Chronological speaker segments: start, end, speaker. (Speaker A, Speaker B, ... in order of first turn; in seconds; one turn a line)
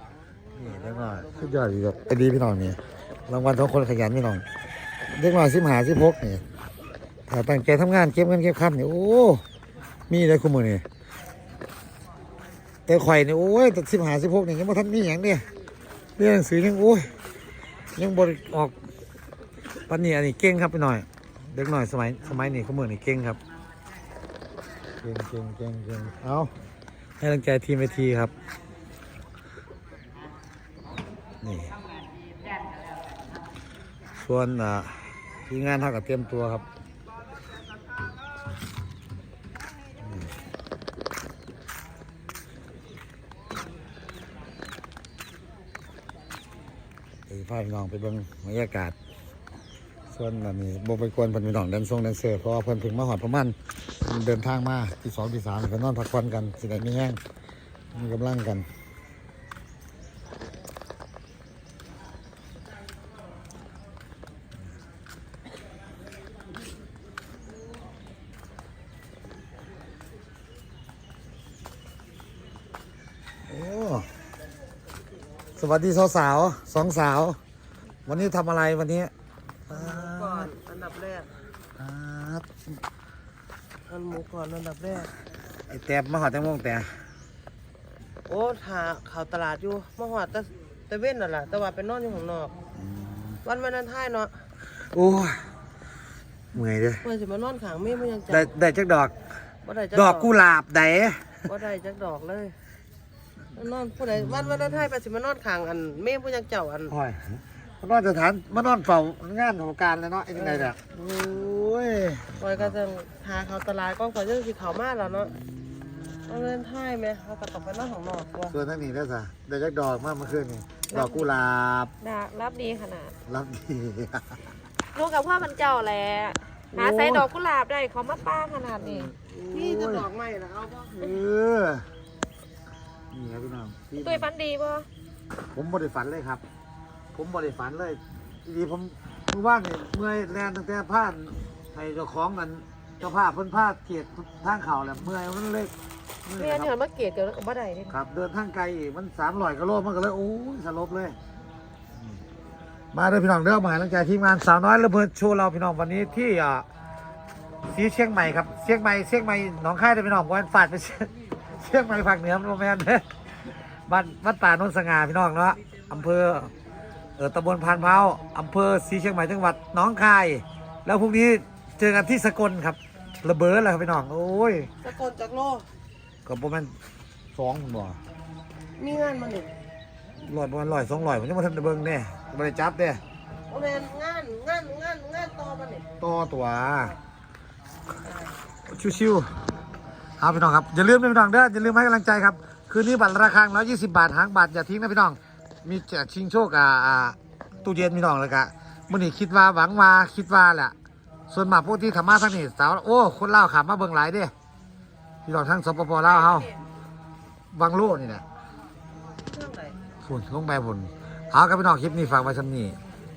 Speaker A: 0.5-4.4
Speaker A: 5.1-6.4
Speaker A: 7.3-9.4
Speaker A: 10.1-10.8
Speaker A: 12.9-15.4
Speaker A: 16.2-17.1
Speaker A: 17.9-18.7
Speaker A: 19.9-23.4
Speaker A: 25.0-26.5
Speaker A: 27.2-28.3
Speaker A: 31.4-31.7
Speaker A: 34.2-36.6
Speaker A: 47.3-48.9
Speaker A: 50.1-57.2
Speaker A: 57.9-58.6
Speaker A: 73.5-74.1
Speaker A: 75.6-77.4
Speaker A: 78.0-79.1
Speaker A: 79.7-80.5
Speaker B: 79.7-81.3
Speaker A: 81.8-82.5
Speaker B: 83.8-85.1
Speaker A: 85.7-86.9
Speaker B: 88.2-92.5
Speaker A: 92.8-93.4
Speaker B: 93.4-94.4
Speaker A: 94.9-95.4
Speaker A: 96.5-97.0
Speaker B: 97.0-98.5
Speaker A: 98.3-99.1
Speaker B: 99.6-100.3
Speaker A: 99.9-101.4
Speaker B: 101.5-102.5
Speaker B: 103.5-106.9
Speaker A: 104.3-104.8
Speaker A: 106.9-112.8
Speaker B: 110.4-110.7
Speaker B: 112.4-115.3
Speaker A: 115.1-116.2
Speaker B: 116.3-118.5
Speaker A: 118.5-121.9
Speaker C: 120.9-121.2
Speaker C: 122.0-123.1
Speaker A: 123.3-124.2
Speaker C: 124.9-129.1
Speaker A: 126.7-127.3
Speaker A: 128.8-130.1
Speaker B: 129.5-131.0
Speaker A: 131.0-131.8
Speaker A: 133.1-134.3
Speaker C: 134.0-134.9
Speaker A: 135.5-136.4
Speaker A: 137.1-145.7
Speaker A: 146.2-146.7
Speaker C: 146.4-147.9
Speaker A: 147.9-151.2
Speaker A: 152.9-156.7
Speaker A: 157.7-163.0
Speaker A: 163.9-166.5
Speaker A: 167.2-174.7
Speaker B: 174.8-175.7
Speaker A: 176.2-176.7
Speaker A: 177.3-178.0
Speaker B: 178.8-179.5
Speaker A: 180.2-183.0
Speaker B: 183.5-185.8
Speaker A: 186.0-186.9
Speaker B: 188.0-188.3
Speaker A: 188.7-189.3
Speaker A: 190.2-200.7
Speaker A: 201.3-204.3
Speaker A: 205.2-206.5
Speaker B: 206.0-206.6
Speaker A: 207.5-208.2
Speaker B: 209.2-209.8
Speaker A: 210.0-212.8